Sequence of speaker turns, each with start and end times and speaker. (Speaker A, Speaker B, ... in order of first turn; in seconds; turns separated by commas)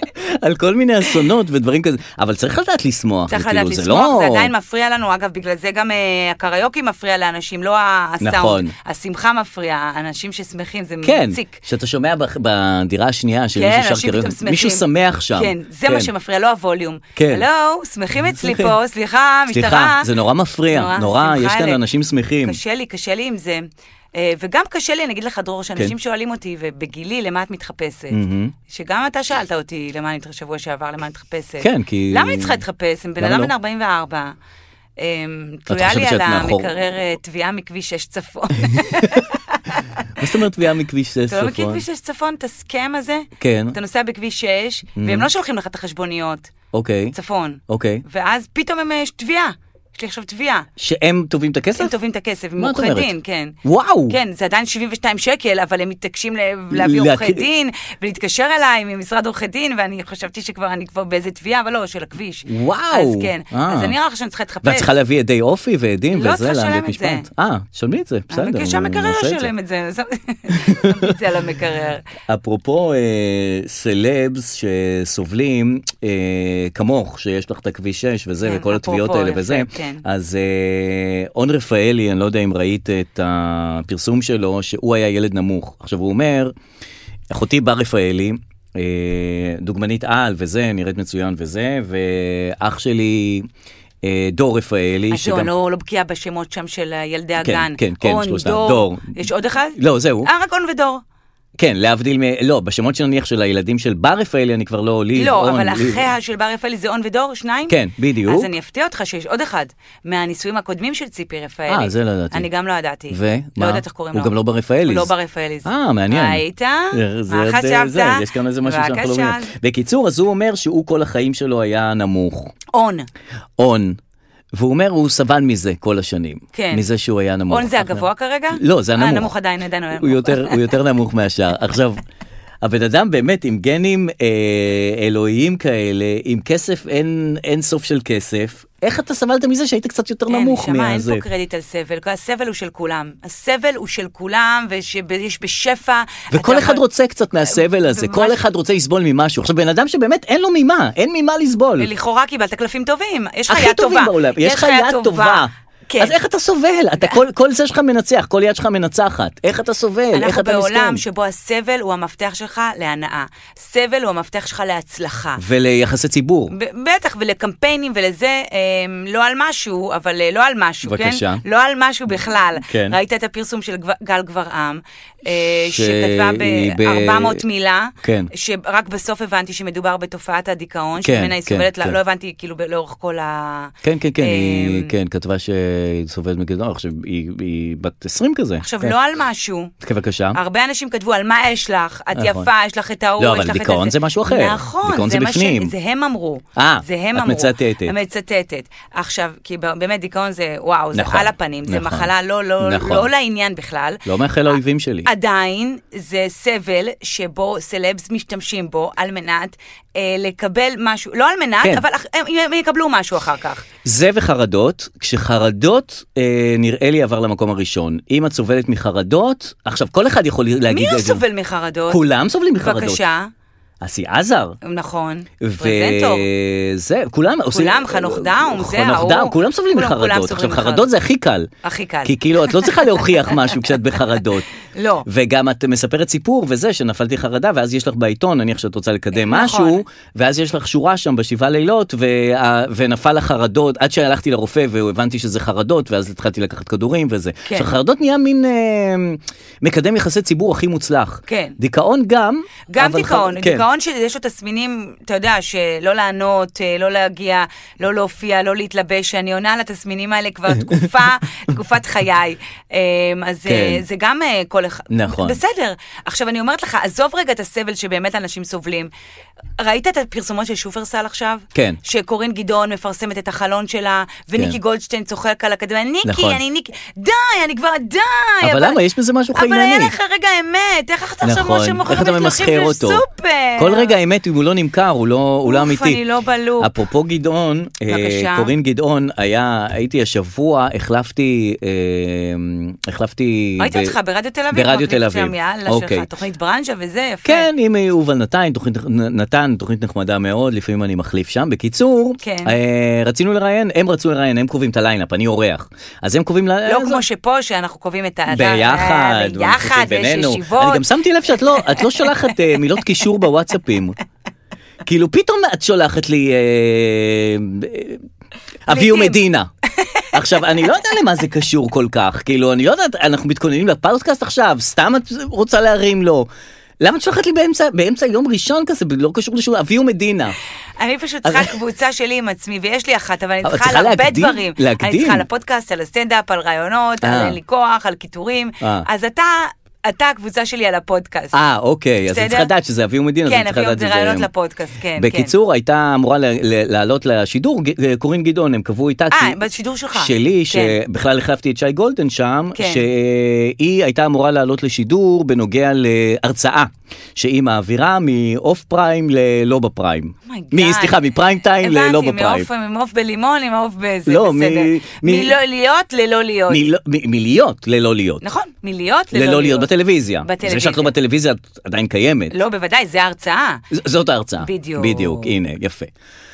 Speaker A: 0.2-4.5, Speaker B: 3.3-11.6, Speaker A: 8.2-8.8, Speaker A: 11.0-16.1, Speaker B: 13.6-20.1, Speaker A: 17.2-17.5, Speaker A: 18.2-18.8, Speaker A: 19.5-22.6, Speaker B: 20.7-21.8, Speaker B: 22.4-23.6, Speaker B: 24.1-34.4, Speaker A: 28.1-28.5, Speaker A: 31.6-32.6, Speaker A: 33.2-33.5, Speaker B: 35.0-40.3, Speaker A: 35.7-36.7, Speaker A: 38.6-39.3, Speaker A: 40.2-41.8, Speaker B: 41.3-46.5, Speaker A: 43.4-43.8, Speaker A: 45.0-45.3, Speaker A: 46.7-47.1, Speaker B: 47.1-50.7, Speaker A: 47.7-48.0, Speaker A: 50.8-52.0, Speaker B: 51.8-53.5, Speaker A: 52.6-53.1, Speaker A: 53.6-54.2, Speaker B: 54.1-64.9, Speaker A: 56.7-57.5, Speaker A: 62.5-63.9, Speaker A: 64.6-69.5, Speaker B: 66.1-67.3, Speaker B: 68.3-72.1, Speaker A: 70.5-71.2, Speaker A: 72.3-86.5, Speaker B: 78.5-80.0, Speaker A: 87.3-93.5, Speaker A: 94.0-95.5, Speaker B: 95.1-101.0, Speaker A: 97.4-99.1, Speaker A: 99.8-100.3, Speaker A: 101.6-106.0, Speaker B: 105.2-119.5, Speaker A: 107.7-108.5, Speaker A: 111.7-112.5, Speaker A: 113.1-115.1, Speaker A: 115.7-122.5, Speaker B: 122.7-123.1, Speaker A: 123.6-124.0, Speaker A: 124.5-129.3, Speaker B: 126.5-126.8, Speaker B: 127.5-130.6, Speaker A: 129.9-132.0, Speaker A: 132.6-141.2, Speaker B: 140.3-146.8, Speaker A: 146.3-151.9, Speaker B: 147.5-148.4, Speaker B: 151.8-156.2, Speaker A: 153.5-161.0, Speaker B: 160.1-165.4, Speaker A: 165.4-166.5, Speaker B: 166.5-184.9, Speaker A: 170.8-171.4, Speaker A: 172.6-173.0, Speaker A: 175.7-177.4, Speaker A: 178.0-178.3, Speaker A: 181.0-182.0, Speaker A: 183.8-188.9, Speaker B: 188.6-189.7, Speaker A: 189.8-190.4, Speaker B: 190.3-204.0, Speaker A: 192.1-192.5, Speaker A: 193.2-195.7, Speaker A: 196.6-197.9, Speaker A: 200.9-202.1, Speaker A: 202.6-203.1, Speaker A: 204.1-205.1, Speaker B: 205.1-213.7, Speaker A: 213.8-221.2, Speaker B: 220.7-222.0, Speaker A: 221.9-223.0, Speaker B: 222.6-223.3, Speaker A: 223.8-224.6, Speaker B: 224.6-226.3, Speaker A: 225.4-231.5, Speaker B: 227.5-230.9, Speaker B: 231.6-233.4, Speaker A: 232.0-234.5, Speaker B: 234.8-235.1, Speaker A: 235.1-253.7, Speaker B: 239.1-239.8, Speaker B: 251.3-251.6, Speaker B: 252.7-268.9, Speaker A: 263.5-263.8, Speaker A: 264.9-265.4, Speaker B: 269.6-278.8, Speaker A: 271.5-271.8, Speaker A: 276.0-276.4, Speaker A: 278.4-279.9, Speaker B: 279.4-284.0, Speaker A: 281.2-283.1, Speaker A: 283.6-286.0, Speaker B: 285.4-286.7, Speaker A: 286.6-293.9, Speaker B: 287.9-288.5, Speaker B: 293.6-297.5, Speaker A: 294.5-296.1, Speaker A: 297.2-307.0, Speaker B: 302.2-302.6, Speaker B: 306.6-310.9, Speaker A: 308.3-314.0, Speaker B: 311.6-312.1, Speaker A: 314.8-318.0, Speaker A: 318.7-319.5, Speaker B: 318.7-319.2, Speaker B: 319.8-320.9, Speaker A: 320.1-326.3, Speaker A: 326.8-330.4, Speaker B: 330.8-341.4, Speaker A: 331.2-331.5, Speaker A: 333.4-335.3, Speaker A: 337.0-337.4, Speaker A: 338.6-338.9, Speaker A: 341.3-344.3, Speaker B: 342.1-342.5, Speaker B: 343.2-345.3, Speaker A: 345.0-349.4, Speaker B: 349.1-350.8, Speaker A: 349.9-362.5, Speaker B: 352.6-352.9, Speaker B: 360.3-366.6, Speaker A: 364.1-365.4, Speaker A: 366.5-368.2, Speaker B: 368.2-369.7, Speaker A: 369.1-372.4, Speaker B: 370.2-370.9, Speaker B: 372.3-373.6, Speaker A: 373.7-375.9, Speaker B: 374.4-375.3